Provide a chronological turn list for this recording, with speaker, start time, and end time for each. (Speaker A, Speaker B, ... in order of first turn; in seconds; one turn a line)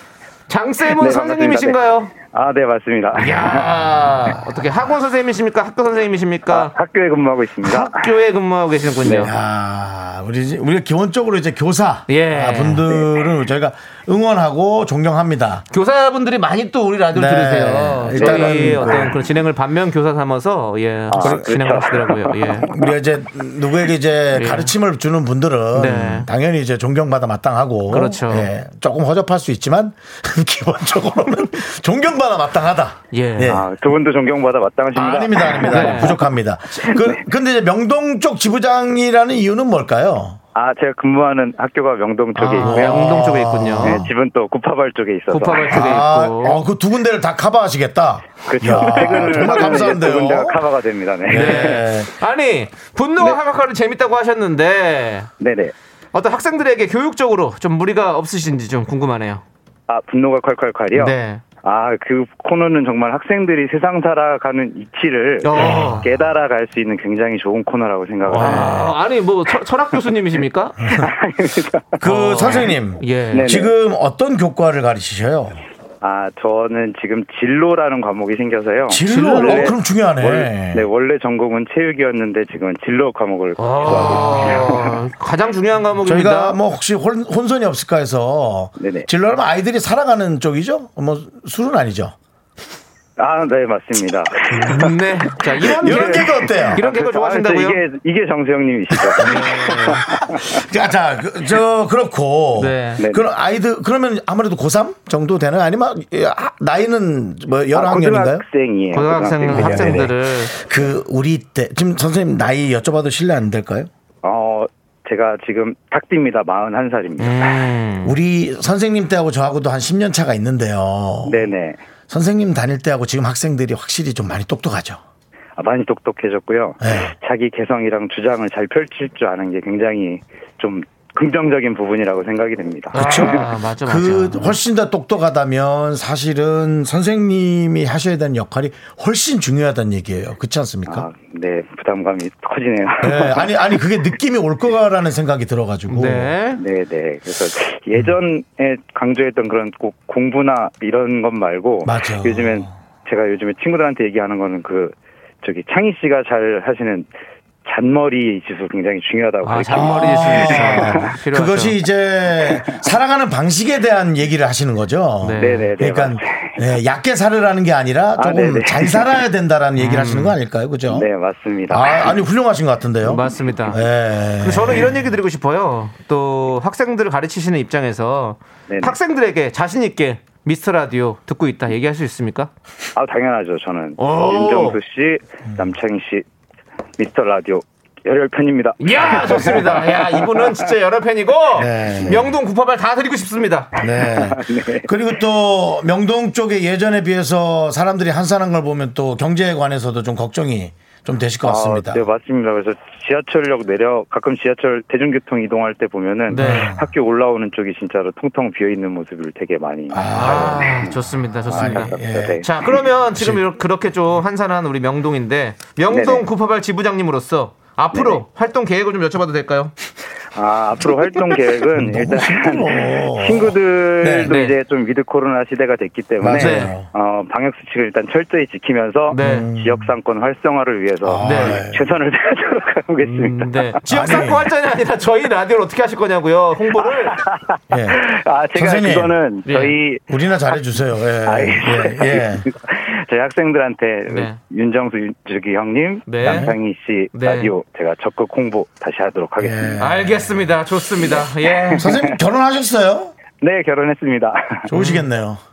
Speaker A: 0.5-2.1
Speaker B: 1.0-3.7
Speaker A: 3.1-6.7
Speaker B: 6.5-8.1
Speaker A: 7.6-9.3
Speaker C: 9.1-15.6
Speaker A: 12.1-12.9
Speaker A: 15.7-22.7
Speaker C: 17.1-19.2
Speaker B: 18.1-19.1
Speaker B: 21.1-22.9
Speaker C: 21.2-21.7
Speaker C: 22.6-33.7
Speaker A: 24.3-24.7
Speaker A: 25.7-26.3
Speaker A: 27.9-28.5
Speaker A: 33.1-33.6
Speaker B: 33.5-36.2
Speaker C: 34.9-40.4
Speaker A: 35.6-36.2
Speaker B: 36.9-37.2
Speaker B: 40.5-43.2
Speaker C: 42.4-44.1
Speaker A: 42.5-44.0
Speaker B: 43.8-45.9
Speaker A: 45.3-46.6
Speaker C: 45.7-50.7
Speaker B: 48.5-51.8
Speaker A: 48.7-49.9
Speaker C: 51.3-52.1
Speaker A: 51.3-55.3
Speaker B: 55.4-55.7
Speaker A: 56.1-59.4
Speaker B: 59.9-68.9
Speaker A: 60.9-61.4
Speaker A: 65.4-66.1
Speaker C: 65.5-66.0
Speaker A: 68.3-71.1
Speaker C: 68.3-68.9
Speaker B: 71.0-72.6
Speaker C: 72.0-75.6
Speaker A: 72.0-73.6
Speaker B: 73.3-73.7
Speaker B: 76.0-84.9
Speaker C: 78.9-80.9
Speaker A: 79.0-79.7
Speaker A: 83.6-86.6
Speaker C: 83.9-84.5
Speaker C: 86.0-92.1
Speaker B: 88.8-89.1
Speaker B: 93.2-94.9
Speaker C: 94.5-94.9
Speaker A: 94.7-97.8
Speaker C: 95.6-96.8
Speaker B: 95.6-100.6
Speaker C: 99.0-108.4
Speaker A: 99.2-100.0
Speaker A: 102.6-103.0
Speaker B: 103.0-103.2
Speaker B: 107.7-110.1
Speaker A: 108.9-110.5
Speaker C: 109.5-113.9
Speaker B: 114.2-117.5
Speaker A: 117.2-118.1
Speaker C: 118.0-121.5
Speaker B: 121.2-121.8
Speaker C: 122.1-125.0
Speaker B: 125.6-133.4
Speaker C: 126.8-127.1
Speaker A: 132.9-134.6
Speaker C: 132.9-141.1
Speaker B: 140.9-143.8
Speaker C: 143.0-146.3
Speaker A: 145.9-146.6
Speaker B: 146.6-157.1
Speaker C: 151.8-152.7
Speaker B: 157.6-161.0
Speaker A: 159.4-161.8
Speaker C: 159.7-171.1
Speaker A: 165.2-165.7
Speaker B: 165.4-166.6
Speaker B: 168.2-169.2
Speaker A: 169.8-170.4
Speaker B: 170.9-172.2
Speaker C: 171.7-175.0
Speaker A: 173.0-173.8
Speaker A: 174.4-182.5
Speaker B: 178.7-179.0
Speaker B: 182.9-186.2
Speaker A: 184.0-184.8
Speaker B: 187.0-190.0
Speaker A: 188.8-193.7
Speaker C: 191.6-192.3
Speaker B: 191.9-192.2
Speaker C: 193.8-202.0
Speaker B: 193.8-194.9
Speaker B: 201.4-212.8
Speaker A: 206.3-206.7
Speaker C: 206.3-206.8
Speaker C: 209.9-211.0
Speaker A: 210.1-219.7
Speaker C: 211.5-212.4
Speaker C: 213.1-213.5
Speaker B: 215.9-216.2
Speaker B: 217.9-218.2
Speaker B: 220.3-233.8
Speaker C: 221.7-224.3
Speaker A: 224.2-224.5
Speaker C: 226.2-226.9
Speaker A: 226.3-226.7
Speaker A: 229.1-229.5
Speaker C: 229.2-229.9
Speaker C: 231.0-231.8
Speaker A: 231.2-231.6
Speaker A: 233.0-237.2
Speaker C: 233.9-234.5
Speaker B: 237.1-240.1
Speaker C: 237.7-238.0
Speaker C: 238.5-239.1
Speaker A: 239.5-239.8
Speaker C: 240.1-242.5
Speaker B: 241.2-249.8
Speaker A: 244.1-244.4
Speaker A: 246.1-246.5
Speaker C: 246.2-246.5
Speaker A: 247.1-247.5
Speaker C: 249.4-250.5
Speaker A: 249.8-251.9
Speaker B: 251.1-252.1
Speaker C: 251.8-253.1
Speaker B: 253.4-254.7
Speaker C: 254.7-255.4
Speaker A: 254.7-255.1